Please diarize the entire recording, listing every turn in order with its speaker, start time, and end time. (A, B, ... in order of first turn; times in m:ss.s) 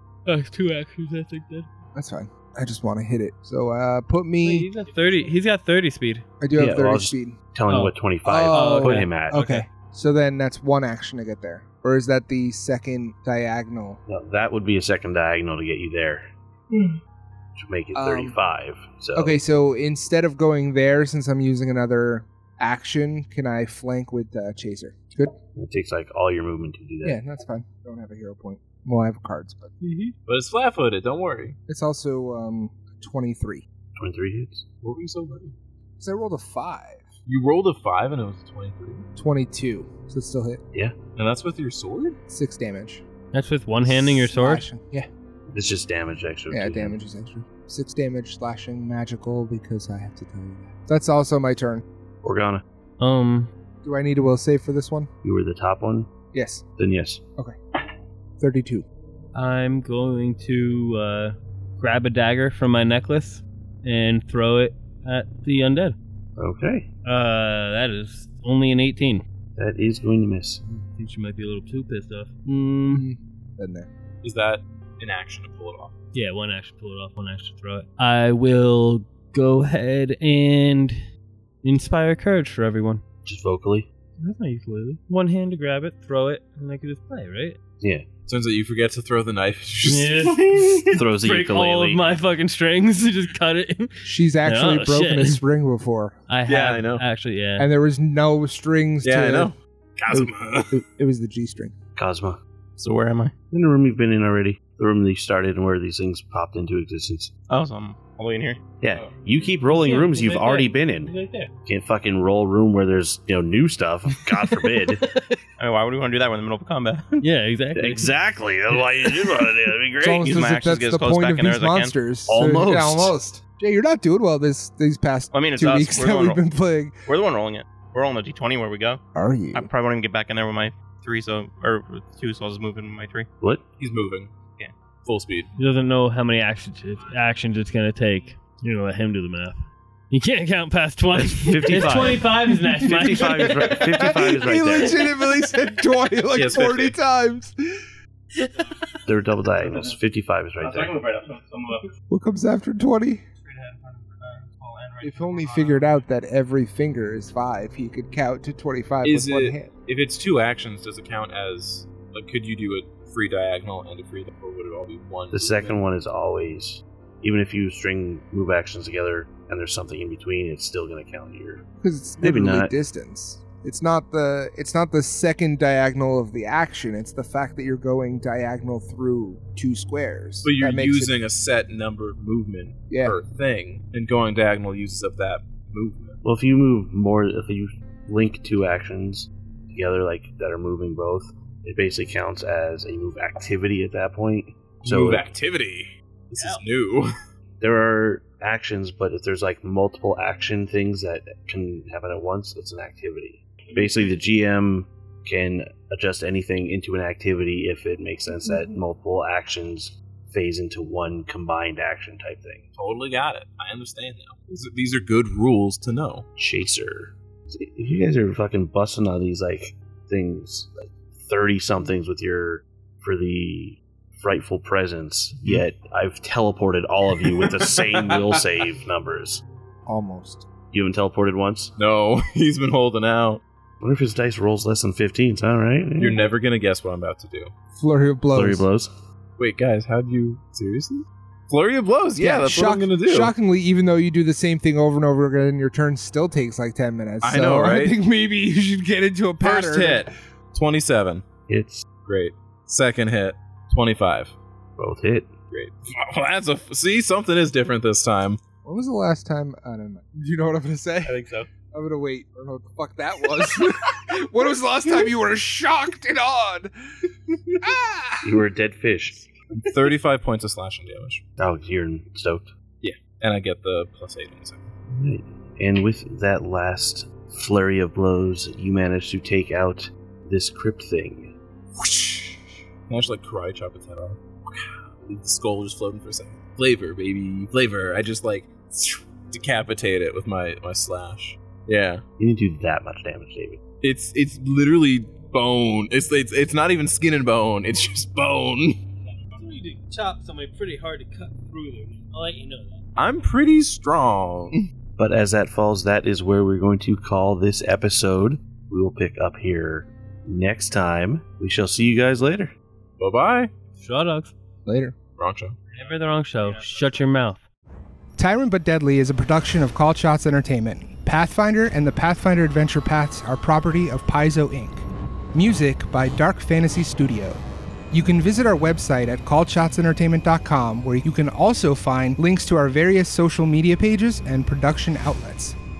0:00.2-0:01.7 A
0:01.9-0:04.7 B
0:04.4-0:06.2 A
0:06.4-0:07.4 B
0:06.6-0:09.4 C
0:07.7-0:08.0 A
0:08.2-0:14.0 B
0:08.5-0:09.6 A
0:14.1-0:16.3 C
0:17.6-0:19.4 C
0:17.9-0:18.4 B
0:19.1-0:25.3 B
0:25.5-0:27.2 C
0:27.0-0:29.7 B
0:29.8-0:30.1 A
0:30.2-0:31.6 D
0:31.7-0:33.6 B
0:34.0-0:34.6 C
0:34.8-0:35.5 D
0:36.0-0:37.1 B
0:37.2-0:39.0 D
0:39.2-0:40.6 B
0:41.1-0:42.2 D
0:42.3-0:43.0 B
0:43.3-0:44.6 A
0:43.8-0:45.1 B
0:45.5-0:46.9 C
0:46.5-0:51.8 B
0:52.2-0:52.6 C
0:53.0-0:53.5 A
0:53.8-0:55.1 B
0:55.2-0:56.1 C
0:56.3-0:56.6 B
0:56.8-0:57.2 C
0:58.4-0:58.8 B
0:59.3-1:06.0 A
1:06.4-1:06.9 C
1:07.0-1:09.2 A
1:09.6-1:10.6 C
1:10.6-1:13.0 A
1:12.9-1:13.9 B
1:14.2-1:15.9 D
1:16.1-1:21.0 A
1:21.6-1:23.0 A
1:23.2-1:23.9 C
1:24.2-1:27.6 A
1:27.8-1:28.1 C
1:28.2-1:30.8 D
1:29.8-1:35.4 A
1:30.9-1:32.0 C
1:34.0-1:36.2 B
1:36.3-1:37.7 A
1:36.5-1:37.0 D
1:37.6-1:39.5 B
1:39.0-1:40.8 D
1:40.1-1:41.7 B
1:42.0-1:42.4 C
1:42.8-1:43.3 E
1:43.5-1:47.3 C
1:47.5-1:48.6 E
1:48.8-1:51.1 C
1:49.6-1:51.5 A
1:51.6-1:55.0 C
1:54.4-1:55.4 A
1:55.6-1:57.2 E
1:57.2-1:58.1 A
1:57.7-2:00.2 C
2:00.0-2:06.9 B
2:00.0-2:01.9 E
2:02.3-2:03.2 C
2:05.3-2:06.4 E
2:07.0-2:09.0 E
2:09.1-2:09.7 B
2:09.5-2:13.3 E
2:13.8-2:14.3 D
2:15.0-2:15.5 D
2:15.6-2:19.6 A
2:20.1-2:23.8 A
2:21.1-2:25.0 C
2:21.8-2:22.1 B
2:22.6-2:27.9 B
2:26.3-2:27.0 D
2:28.4-2:28.7 A
2:29.0-2:31.0 C
2:30.6-2:31.9 E
2:32.1-2:33.2 B
2:33.4-2:36.0 E
2:35.0-2:39.7 B
2:39.0-2:45.8 D
2:45.3-2:51.6 C
2:51.8-3:01.1 B
2:52.2-2:52.7 C
3:00.4-3:06.2 D
3:02.9-3:03.2 B
3:06.2-3:15.2 C
3:14.8-3:17.1 D
3:16.4-3:16.6 A
3:17.6-3:32.6 C
3:32.7-3:36.3 D
3:36.4-3:49.4 C
3:47.2-3:48.5 D
3:49.9-3:50.4 B
3:50.7-3:51.7 C
3:51.8-3:53.4 D
3:53.8-3:56.3 C
3:56.0-3:57.5 D
3:57.7-3:58.6 B
3:58.3-3:58.9 C
3:59.4-4:03.3 D
4:02.2-4:10.1 B
4:07.2-4:08.0 D
4:09.4-4:11.2 D
4:11.5-4:11.9 C
4:12.0-4:14.3 D
4:14.8-4:15.3 C
4:15.5-4:18.4 D
4:18.6-4:21.2 B
4:21.0-4:21.5 E
4:21.7-4:26.7 B
4:27.6-4:28.4 B
4:28.2-4:29.2 C
4:29.5-4:31.2 D
4:31.4-4:32.5 C
4:32.8-4:34.7 D
4:34.9-4:41.3 C
4:41.7-4:52.0 D
4:52.2-4:53.6 C
4:53.8-4:58.8 D
4:59.3-5:02.8 A
5:03.0-5:04.6 D
5:05.0-5:12.5 C
5:13.0-5:13.5 D
5:13.8-5:14.3 A
5:14.6-5:15.0 B
5:15.2-5:15.6 D
5:15.7-5:17.4 A
5:18.2-5:35.6 B